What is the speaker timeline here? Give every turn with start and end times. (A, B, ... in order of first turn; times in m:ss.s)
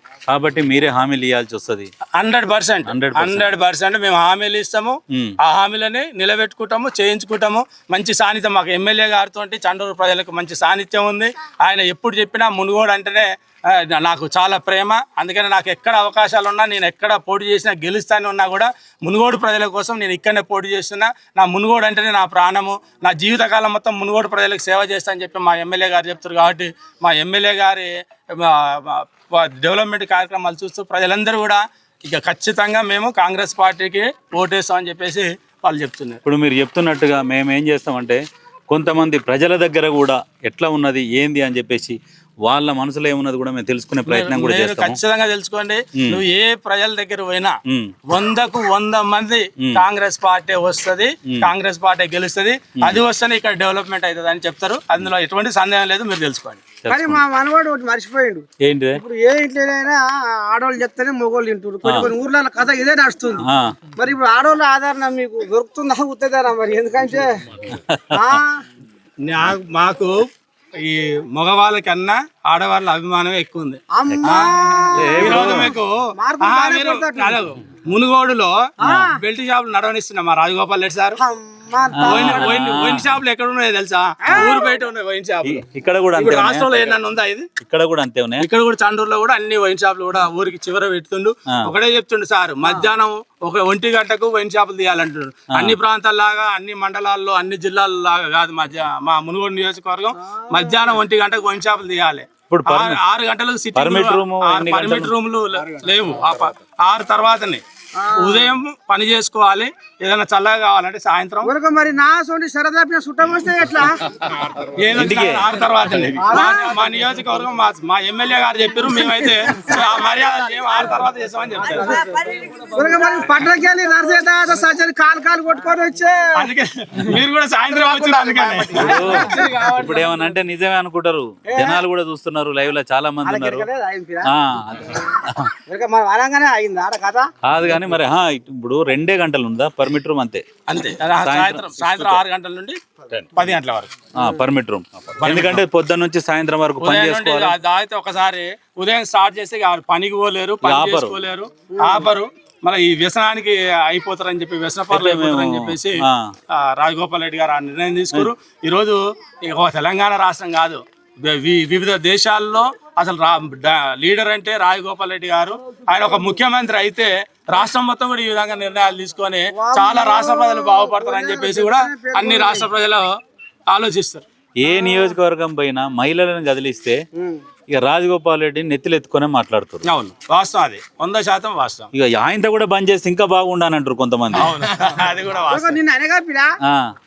0:00.3-0:01.9 A
0:02.2-0:36.2 B
0:02.9-0:03.5 A
0:36.2-0:45.0 A
0:44.1-0:47.6 B
0:48.1-0:56.6 B
0:56.8-0:57.2 A
0:56.9-1:03.4 C
0:58.6-0:59.0 A
1:03.5-1:03.8 A
1:04.0-1:07.4 C
1:07.7-1:08.1 A
1:08.1-1:08.6 C
1:09.2-1:10.1 B
1:10.8-1:21.2 B
1:13.9-1:17.4 C
1:14.1-1:15.8 A
1:18.8-1:19.2 C
1:18.8-1:19.1 A
1:21.2-1:22.7 C
1:22.0-1:23.2 A
1:22.0-1:27.5 B
1:24.2-1:24.8 C
1:25.4-1:27.0 A
1:27.6-1:28.5 A
1:28.4-1:47.6 B
1:40.1-1:41.0 C
1:42.5-1:43.0 A
1:43.8-1:45.1 A
1:48.0-1:48.5 C
1:48.1-1:51.5 B
1:51.4-1:54.0 C
1:54.6-2:02.0 B
1:55.0-1:55.5 A
1:56.2-1:56.8 C
1:59.0-1:59.8 C
2:01.7-2:06.5 C
2:06.4-2:09.5 B
2:07.9-2:10.1 C
2:08.8-2:13.7 A
2:11.5-2:11.8 C
2:13.2-2:14.3 C
2:14.3-2:15.5 A
2:15.7-2:17.3 C
2:17.5-2:20.4 A
2:20.7-2:22.8 B
2:21.2-2:22.2 A
2:23.3-2:23.9 B
2:24.2-2:27.5 A
2:25.2-2:25.6 B
2:26.8-2:36.0 B
2:30.6-2:31.2 A
2:31.7-2:32.1 C
2:34.9-2:36.3 A
2:36.5-2:53.1 B
2:49.5-2:52.7 C
2:53.7-2:54.2 B
2:54.6-2:57.0 A
2:54.7-2:55.1 C
2:57.2-2:57.4 C
2:57.7-2:59.8 A
2:59.8-3:01.9 B
3:01.9-3:04.5 A
3:04.3-3:05.8 B
3:05.5-3:06.5 C